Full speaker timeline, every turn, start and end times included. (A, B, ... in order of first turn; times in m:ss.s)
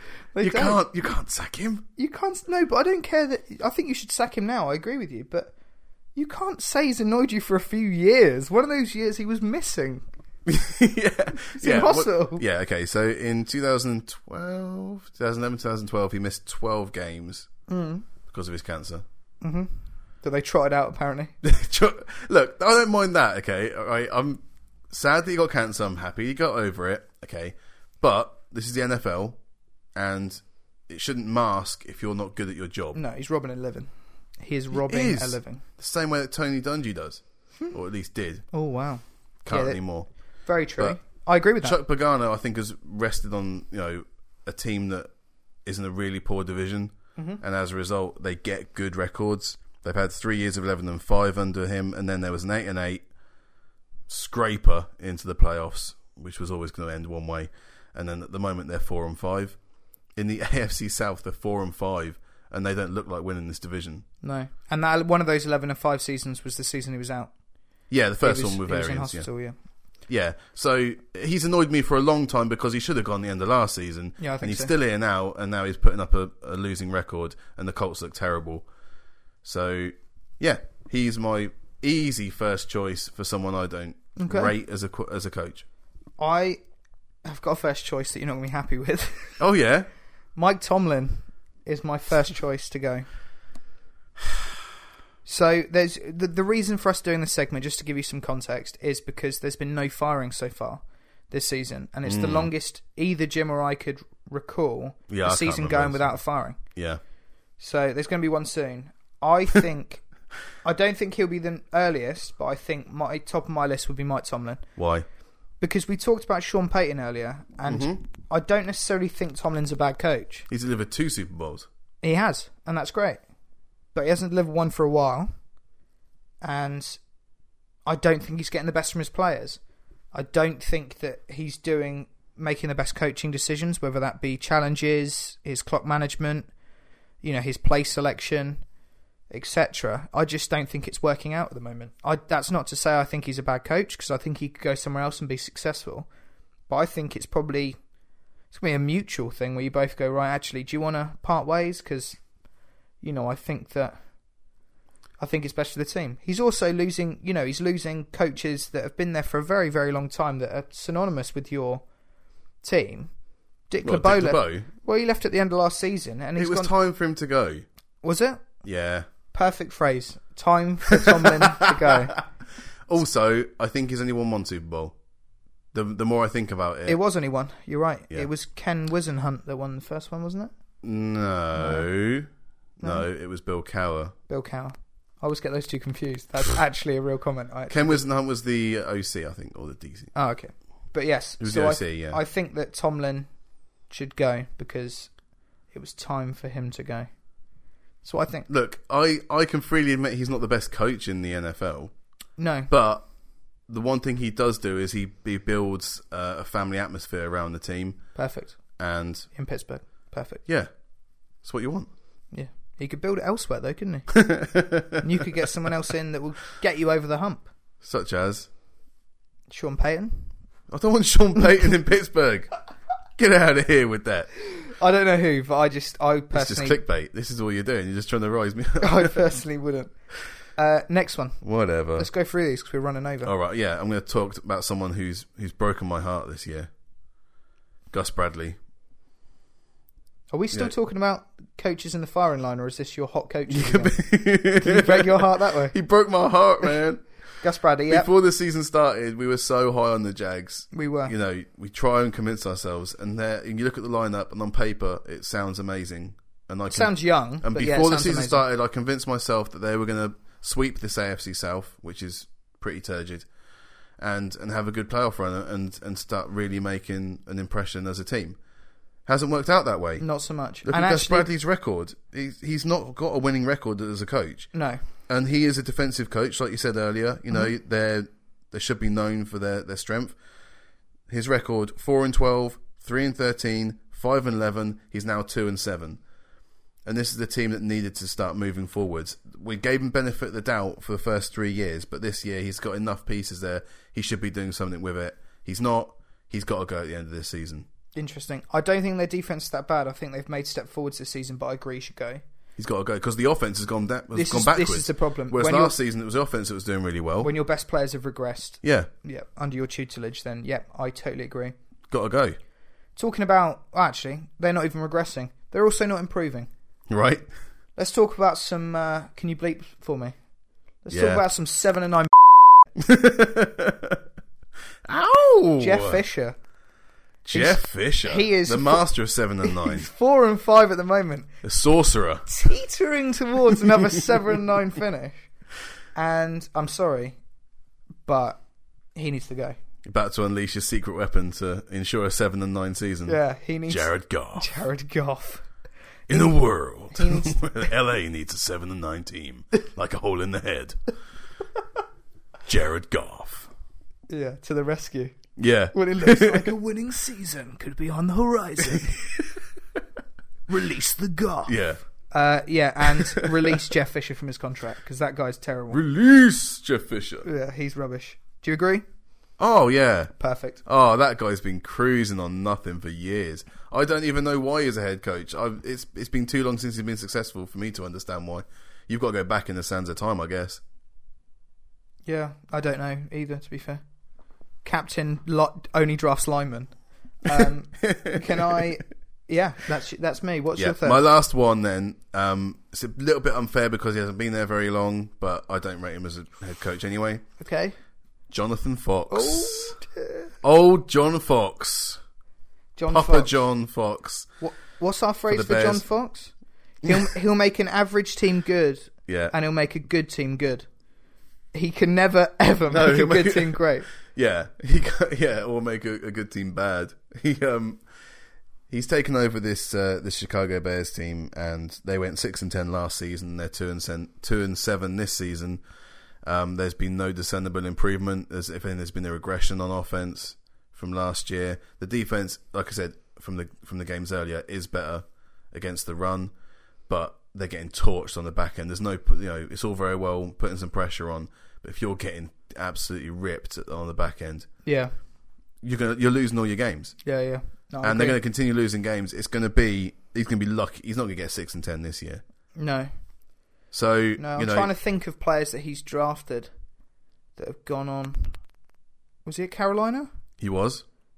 0:00.3-0:00.8 A
0:00.4-0:01.9 B
0:02.0-0:05.5 A
0:06.1-0:10.0 A
0:10.5-0:17.5 B
0:11.4-0:12.4 A
0:17.7-0:18.0 A
0:18.3-0:19.0 B
0:19.4-0:21.3 A
0:21.4-0:29.4 B
0:30.0-0:33.0 B
0:32.9-0:35.6 A
0:34.7-0:38.5 B
0:38.5-0:39.8 A
0:39.4-0:40.1 B
0:40.5-0:41.8 A
0:41.6-0:45.1 B
0:45.6-0:53.0 B
0:54.1-0:59.6 B
1:00.1-1:04.0 B
1:04.2-1:07.3 A
1:07.9-1:09.3 B
1:08.2-1:09.6 A
1:10.1-1:18.7 B
1:14.2-1:14.7 A
1:19.4-1:25.6 B
1:24.2-1:24.5 A
1:26.2-1:26.6 A
1:27.2-1:29.4 A
1:29.4-1:29.9 B
1:30.4-1:33.0 A
1:35.3-1:46.6 A
1:42.0-1:42.5 B
1:45.1-1:47.0 B
1:47.6-1:50.0 A
1:50.6-1:54.6 A
1:54.8-1:55.1 B
1:55.6-2:00.5 A
1:57.7-1:58.0 B
2:00.5-2:01.7 B
2:02.0-2:03.2 A
2:03.9-2:05.3 A
2:06.4-2:07.0 A
2:07.9-2:09.6 A
2:10.1-2:16.5 A
2:17.2-2:18.6 A
2:19.3-2:26.1 A
2:26.7-2:27.8 A
2:28.5-2:32.2 A
2:33.0-2:34.0 A
2:35.2-2:41.8 A
2:42.6-2:43.1 A
2:43.7-2:46.7 A
2:43.8-2:44.7 B
2:46.4-2:47.6 B
2:48.0-2:48.5 A
2:48.6-2:49.1 B
2:49.3-2:52.2 A
2:51.0-2:52.2 B
2:52.9-2:55.0 B
2:55.7-2:57.0 B
2:56.9-3:00.5 A
3:00.8-3:02.3 B
3:01.6-3:01.9 A
3:02.8-3:03.1 A
3:02.8-3:04.1 B
3:04.3-3:08.0 A
3:07.7-3:10.1 B
3:10.1-3:13.3 A
3:11.4-3:12.2 B
3:13.9-3:15.1 A
3:15.7-3:17.1 A
3:18.0-3:18.5 A
3:18.5-3:21.9 B
3:22.4-3:22.7 A
3:22.7-3:23.1 B
3:23.7-3:28.0 B
3:28.1-3:28.6 A
3:28.8-3:29.3 B
3:29.4-3:30.4 A
3:31.4-3:31.9 B
3:32.3-3:34.2 A
3:34.1-3:35.0 B
3:35.0-3:37.5 A
3:37.8-3:38.5 B
3:39.5-3:40.3 A
3:40.7-3:42.5 B
3:43.2-3:44.3 B
3:44.6-3:46.8 A
3:46.3-3:49.2 B
3:48.8-3:49.9 A
3:50.6-3:51.4 A
3:51.4-3:52.1 B
3:52.0-3:53.3 A
3:53.2-3:56.7 B
3:57.9-3:58.6 B
4:00.3-4:05.8 A
4:03.5-4:07.0 B
4:07.4-4:08.1 A
4:07.9-4:23.3 B
4:10.7-4:11.1 A
4:16.7-4:18.4 A
4:24.0-4:28.4 B
4:29.1-4:30.0 B
4:30.0-4:31.3 A
4:30.6-4:34.5 B
4:34.5-4:34.8 A
4:35.1-4:40.2 B
4:41.1-4:46.0 B
4:46.8-4:57.7 B
4:58.0-5:02.2 A
5:02.6-5:07.3 B
5:04.1-5:05.8 A
5:07.2-5:11.6 A
5:08.6-5:08.9 B
5:11.9-5:12.4 B
5:13.0-5:16.5 A
5:16.9-5:17.3 B
5:17.8-5:20.1 A
5:20.8-5:22.2 A
5:20.9-5:21.2 B
5:22.8-5:24.0 B
5:24.9-5:26.0 B
5:25.6-5:26.4 A
5:27.2-5:29.9 B
5:27.3-5:28.9 A
5:29.4-5:31.3 A
5:31.4-5:32.3 B
5:32.3-5:35.3 A
5:36.0-5:37.2 A
5:38.1-5:38.4 A
5:39.0-5:39.6 A
5:39.8-5:44.5 B
5:43.1-5:45.4 A
5:46.1-5:50.8 B
5:46.9-5:47.7 A
5:52.5-5:53.5 B
5:54.1-5:55.2 A
5:55.4-5:56.6 B
5:55.7-5:59.3 A
6:00.5-6:01.6 A
6:01.5-6:01.8 B
6:02.1-6:05.8 A
6:02.9-6:03.5 B
6:05.7-6:07.3 B
6:07.2-6:08.8 A
6:09.4-6:10.1 B
6:10.2-6:10.6 A
6:10.6-6:20.6 B
6:22.1-6:23.8 A
6:24.6-6:26.7 A
6:27.2-6:31.0 A
6:27.4-6:28.7 B
6:30.6-6:37.2 B
6:37.4-6:37.8 A
6:38.3-6:39.8 B
6:39.1-6:40.3 A
6:40.4-6:42.0 B
6:42.8-6:43.3 A
6:42.9-6:44.3 B
6:44.4-6:46.3 A
6:45.3-6:45.9 B
6:46.8-6:50.7 A
6:46.8-6:47.1 B
6:49.1-6:49.3 B
6:51.5-6:53.9 A
6:52.7-6:57.8 B
6:58.7-7:05.6 B
7:06.2-7:16.3 B
7:16.9-7:24.5 B
7:24.6-7:24.9 A
7:25.6-7:27.0 B
7:27.0-7:28.2 A
7:27.8-7:32.2 B
7:32.6-7:32.9 A
7:33.7-7:34.7 B
7:34.2-7:36.5 A
7:37.4-7:38.4 A
7:39.2-7:40.1 A
7:40.4-7:40.8 B